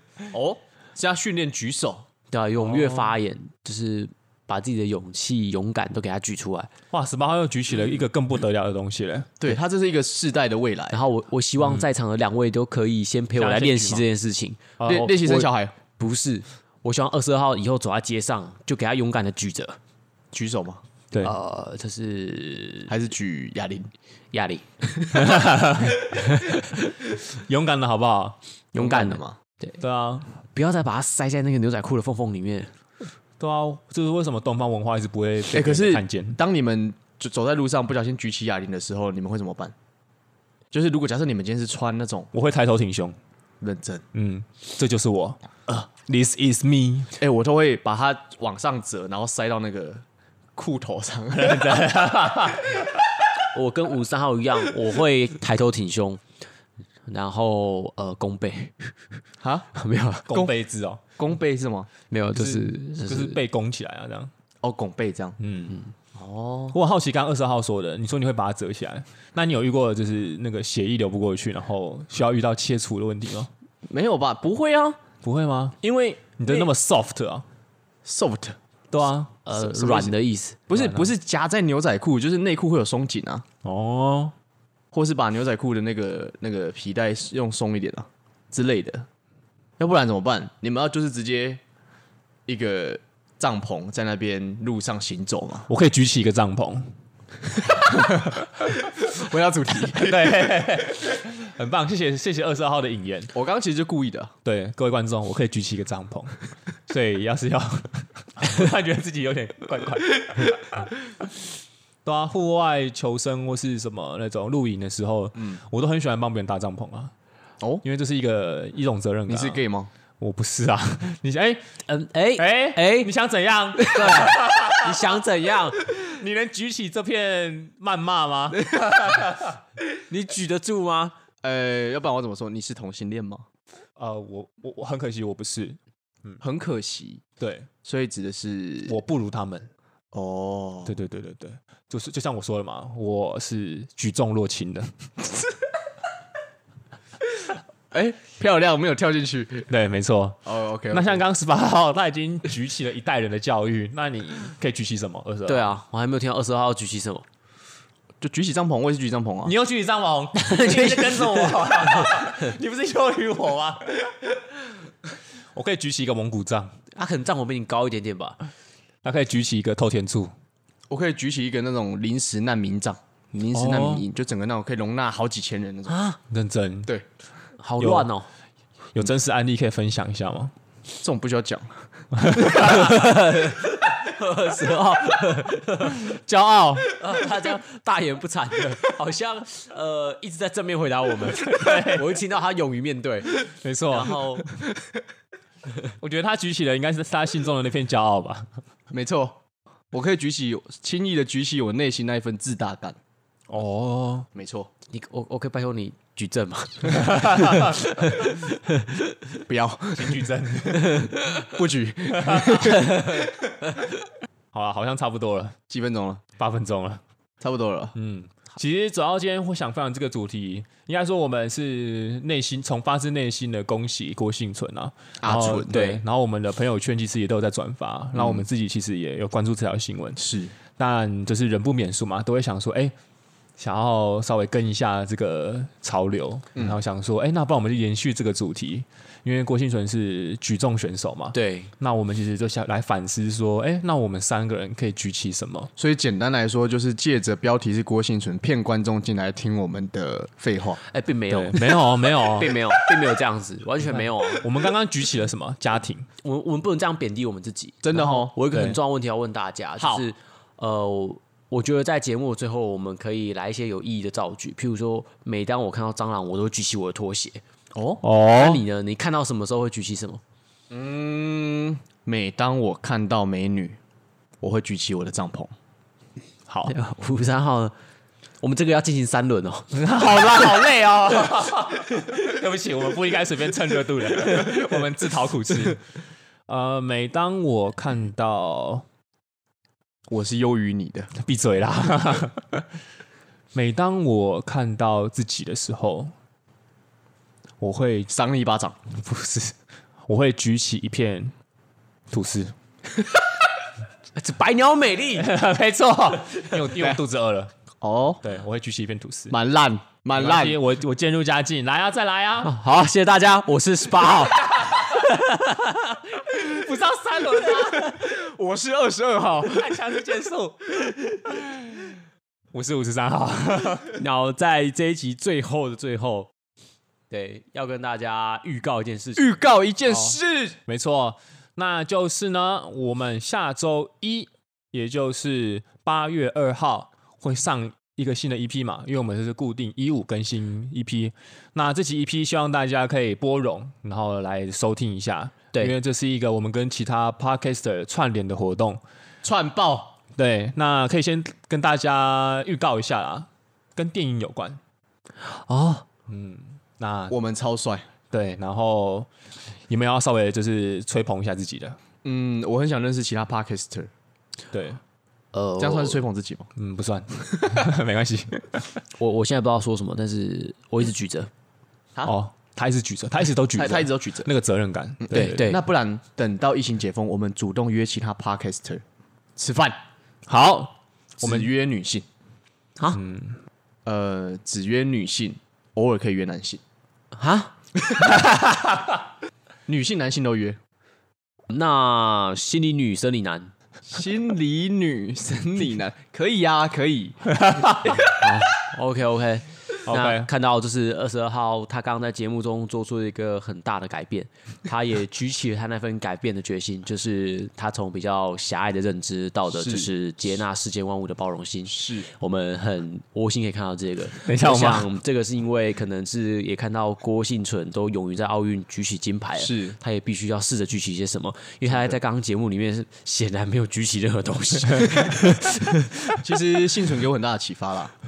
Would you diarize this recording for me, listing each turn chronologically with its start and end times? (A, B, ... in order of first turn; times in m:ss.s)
0:00.3-0:02.1 A
0:02.3-0:06.7 B
0:02.6-0:03.2 C
0:06.9-0:09.4 C
0:09.4-0:11.0 A
0:10.9-0:19.8 B
0:13.4-0:14.1 C
0:14.8-0:15.8 A
0:20.3-0:20.8 A
0:21.2-0:23.0 B
0:22.9-0:23.9 A
0:24.3-0:26.7 B
0:25.2-0:26.1 C
0:27.2-0:28.4 C
0:28.7-0:29.7 B
0:28.8-0:29.4 A
0:29.8-0:30.3 C
0:30.5-0:32.7 B
0:33.4-0:36.4 C
0:35.5-0:39.7 A
0:40.7-0:42.3 A
0:42.3-0:43.2 C
0:43.6-0:44.0 A
0:44.1-0:45.4 C
0:46.0-0:47.2 C
0:47.2-0:50.0 A
0:50.6-0:51.9 A
0:51.4-0:53.0 C
0:53.5-0:56.2 B
0:57.1-0:58.9 B
0:59.4-0:59.7 A
0:59.8-1:00.3 B
1:00.3-1:01.0 C
1:01.2-1:01.9 A
1:02.1-1:03.4 B
1:02.3-1:04.3 C
1:04.6-1:05.4 A
1:05.4-1:05.8 C
1:06.2-1:06.8 A
1:06.7-1:13.5 C
1:13.9-1:15.0 A
1:15.2-1:15.8 C
1:15.9-1:16.7 A
1:16.4-1:17.4 C
1:18.0-1:18.6 A
1:18.9-1:19.3 C
1:19.5-1:20.6 B
1:19.6-1:20.2 A
1:20.7-1:23.4 A
1:20.7-1:21.1 C
1:23.6-1:24.3 C
1:24.9-1:29.1 A
1:29.8-1:31.6 A
1:32.5-1:35.7 A
1:35.7-1:36.9 C
1:37.8-1:40.5 A
1:39.9-1:43.3 C
1:43.3-1:44.3 A
1:44.4-1:46.4 C
1:46.9-1:50.9 C
1:52.0-1:57.1 C
1:57.8-1:59.6 C
1:59.3-1:59.9 A
2:00.2-2:01.7 C
2:01.9-2:03.1 B
2:02.4-2:05.2 C
2:03.8-2:05.8 B
2:05.8-2:09.6 C
2:10.1-2:11.2 B
2:11.4-2:13.4 A
2:14.0-2:16.4 C
2:16.4-2:17.2 A
2:17.4-2:17.7 C
2:17.8-2:19.0 A
2:18.9-2:19.7 C
2:20.1-2:21.0 A
2:20.9-2:24.9 C
2:27.9-2:29.7 A
2:29.7-2:35.7 C
2:30.4-2:31.2 A
2:35.5-2:37.3 B
2:38.2-2:39.5 A
2:39.4-2:44.1 C
2:40.4-2:42.5 B
2:45.5-2:46.7 C
2:46.9-2:48.4 B
2:49.0-2:50.3 C
2:50.9-2:56.0 A
2:53.5-2:54.0 C
2:55.9-2:56.2 B
2:56.3-2:56.9 C
2:57.6-2:58.3 B
2:57.8-2:58.1 C
2:58.9-3:00.5 C
3:01.0-3:01.8 A
3:02.1-3:03.0 C
3:02.5-3:06.0 B
3:05.9-3:06.9 C
3:06.9-3:14.5 B
3:11.3-3:12.2 C
3:13.5-3:14.2 C
3:16.0-3:18.5 C
3:18.9-3:19.4 A
3:19.9-3:23.0 A
3:23.5-3:24.3 C
3:24.3-3:24.7 A
3:24.9-3:28.5 B
3:26.9-3:27.9 C
3:29.5-3:30.2 A
3:29.9-3:31.0 C
3:30.8-3:31.3 B
3:31.3-3:33.2 A
3:32.1-3:32.7 C
3:32.9-3:33.3 B
3:34.5-3:35.6 C
3:35.7-3:36.2 A
3:36.4-3:37.0 C
3:37.4-3:38.0 A
3:38.0-3:50.2 C
3:45.2-3:45.9 A
3:45.7-3:46.0 B
3:48.1-3:48.5 A
3:50.2-3:50.5 A
3:50.8-3:52.9 C
3:53.6-4:05.7 C
4:01.3-4:01.7 B
4:05.8-4:10.8 A
4:10.8-4:14.5 B
4:11.3-4:12.5 C
4:13.9-4:16.1 C
4:16.2-4:27.4 B
4:17.8-4:18.4 A
4:18.5-4:18.8 C
4:19.8-4:20.1 A
4:27.8-4:28.0 A
4:28.0-4:28.6 C
4:28.3-4:30.2 B
4:30.7-4:33.8 A
4:34.4-4:35.5 A
4:36.5-4:36.7 C
4:36.7-4:37.7 B
4:38.4-4:40.6 B
4:39.7-4:45.8 C
4:46.5-4:48.8 C
4:50.1-4:51.1 A
4:51.2-4:52.7 C
4:53.5-4:56.1 C
4:57.6-4:58.1 C
4:58.1-4:58.8 A
4:58.9-4:59.6 C
5:00.1-5:01.3 C
5:02.1-5:02.5 C
5:04.2-5:05.3 B
5:05.2-5:07.5 C
5:06.8-5:07.0 A
5:07.8-5:08.2 A
5:08.2-5:09.4 C
5:09.3-5:10.6 A
5:10.1-5:12.5 C
5:12.4-5:16.0 B
5:14.6-5:14.9 C
5:16.3-5:18.0 C
5:17.8-5:19.7 A
5:19.5-5:21.9 C
5:22.5-5:24.0 C
5:23.9-5:26.3 B
5:27.1-5:29.2 B
5:29.2-5:30.6 A
5:29.9-5:48.8 C
5:49.2-5:50.0 A
5:50.2-5:54.6 C
5:55.2-5:55.8 B
5:56.1-5:57.2 C
5:57.1-5:57.9 A
5:58.1-5:59.1 C
5:59.7-6:01.8 C
6:02.0-6:03.9 A
6:04.5-6:04.8 C
6:05.3-6:06.0 B
6:05.6-6:06.5 A
6:06.6-6:08.8 C
6:09.0-6:11.3 B
6:12.0-6:15.5 C
6:13.5-6:14.3 A
6:15.0-6:18.8 A
6:15.1-6:15.6 B
6:19.4-6:19.8 A
6:20.3-6:21.5 C
6:21.2-6:22.0 A
6:22.9-6:23.4 C
6:23.8-6:26.6 A
6:27.2-6:27.5 B
6:28.2-6:28.6 C
6:29.7-6:30.6 A
6:31.5-6:33.5 B
6:33.9-6:37.2 A
6:37.4-6:38.0 C
6:37.9-7:06.0 B
6:39.9-6:40.3 C
6:49.5-6:49.9 A
6:51.7-6:52.1 A
6:54.2-6:54.9 C
6:59.4-6:59.8 A
7:01.7-7:02.0 A
7:06.2-7:07.9 A